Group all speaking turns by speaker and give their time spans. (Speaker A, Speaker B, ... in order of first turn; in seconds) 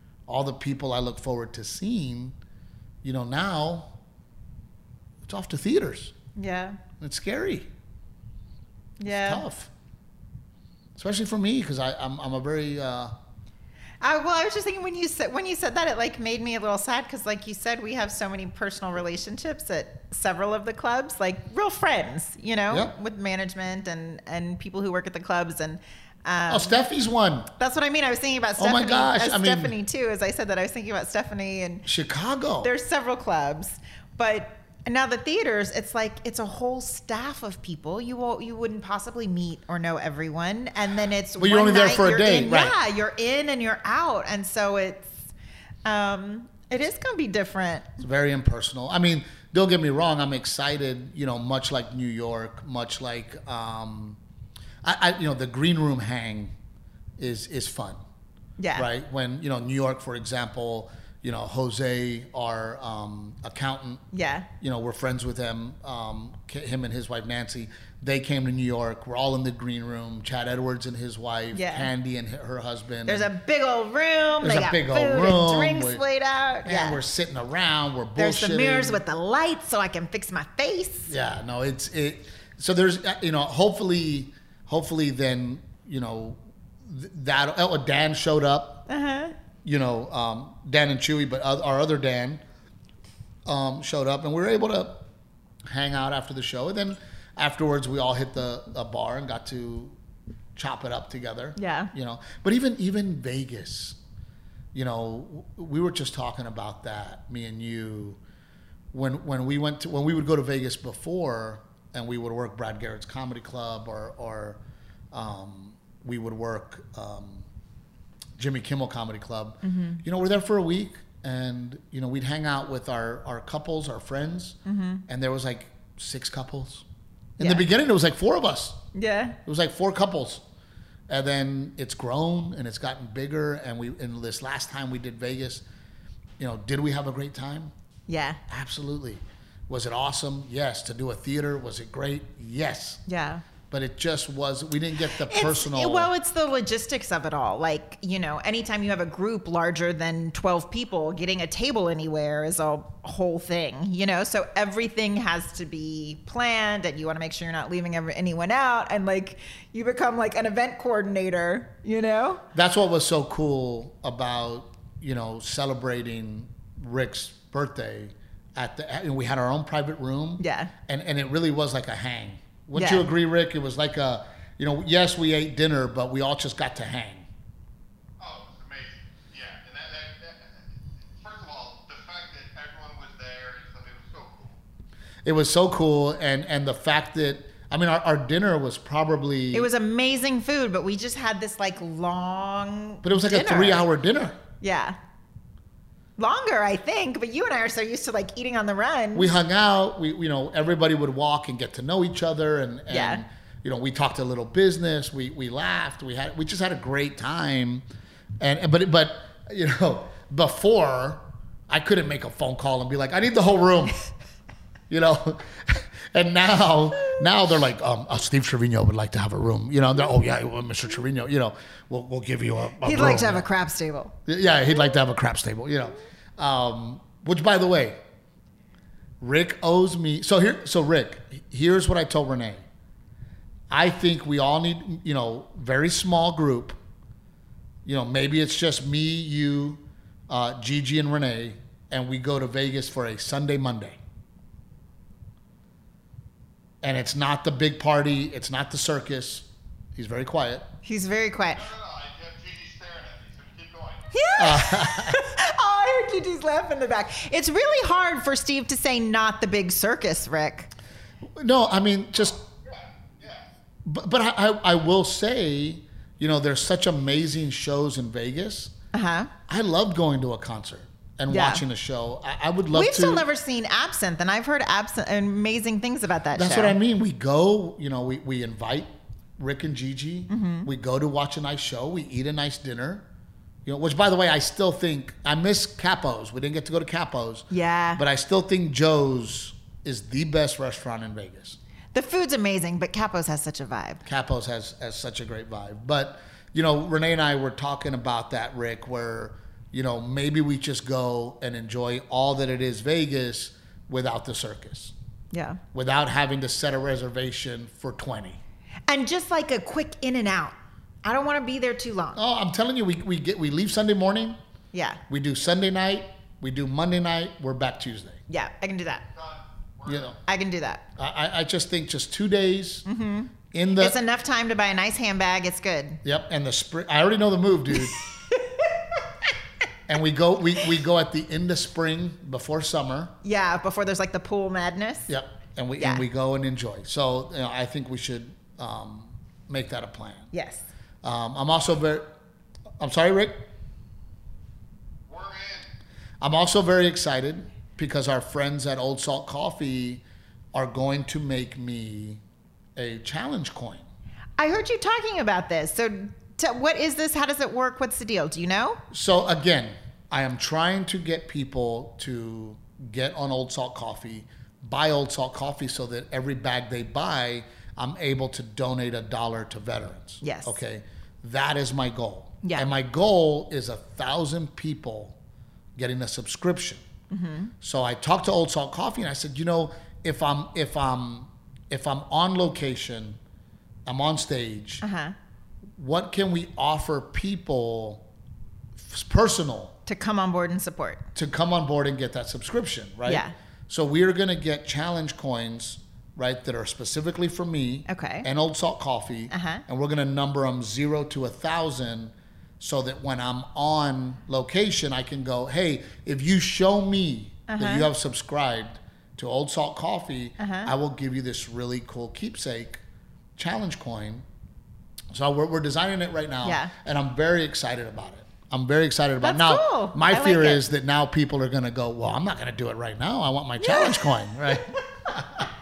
Speaker A: 0.3-2.4, 3.0-3.9, 5.2-6.2, 7.0-7.7, 9.1-9.7, 11.0-13.1, 26.5-27.5, 28.6-29.8, 31.9-32.7, 41.4-42.8, 48.0-54.2, 54.8-56.5, 57.2-58.0, 58.8-64.0, 64.6-73.3, 74.4-76.0, 76.6-79.0, 81.1-88.9, 89.6-92.4, 93.5-95.1, 95.7-100.0, 100.6-104.0, 104.7-108.2, 108.9-114.6, 115.1-117.5, 118.4-126.8, 127.4-128.8, 129.4-130.4, 131.1-135.6, 136.4-137.7, 138.5-143.0, 143.7-146.1, 162.5-177.3, 185.2-189.7, 193.0-194.4, 199.2-207.8, 208.4-214.1, 214.9-223.5, 224.3-228.0, 229.2-232.6, 233.7-236.8, 237.8-244.0, 246.8-250.7, 254.4-255.2, 261.4-262.4, 263.8-268.7, 269.5-273.2, 276.4-283.1, 283.7-291.6, 294.1-304.9, 305.7-308.4, 312.1-314.4, 315.1-318.2, 319.9-320.1, 321.0-322.9, 323.5-324.0, 326.0-328.0, 329.9-333.1, 335.1-340.3, 341.0-342.1, 342.8-343.3, 346.2-350.0, 350.5-352.2, 352.8-353.9, 358.9-375.2, 375.8-376.8, 377.6-383.2, 383.9-384.8, 385.8-388.1, 388.8-389.8, 391.1-412.8, 413.4-414.2, 415.1-425.5
Speaker B: 6.4-6.8, 9.0-9.4, 14.0-26.8, 27.6-31.9, 32.6-45.2, 45.9-48.0, 58.6-58.9, 64.1-64.5, 71.5-71.9, 73.1-77.0, 78.2-81.1, 88.9-89.3, 101.6-101.9, 119.6-120.0, 124.7-125.0, 127.4-127.7, 128.9-129.4, 138.1-138.4, 143.1-143.4, 145.3-162.4, 170.4-170.7, 172.8-173.1, 189.5-193.9, 194.6-195.0, 196.2-199.4, 202.9-203.2, 222.8-224.1, 250.8-251.7, 254.1-260.7, 268.9-269.3, 271.3-271.6, 272.7-276.8, 280.3-280.7, 287.5-288.0, 291.9-294.0, 305.3-305.6, 308.9-312.2, 314.7-315.0, 318.3-319.1, 320.2-320.8, 322.9-326.0, 327.7-328.8, 333.2-335.1, 335.8-336.1, 340.3-340.6, 354.4-358.8, 370.2-370.6, 372.4-372.7, 377.1-377.5, 384.8-385.1, 389.9-391.0, 393.1-393.3, 397.9-398.3, 399.3-399.6, 407.5-407.9, 410.4-410.7, 416.4-416.7, 419.2-420.6, 423.6-424.6
Speaker C: 178.2-184.6, 251.5-254.1, 262.7-263.5, 319.1-320.2, 345.1-345.7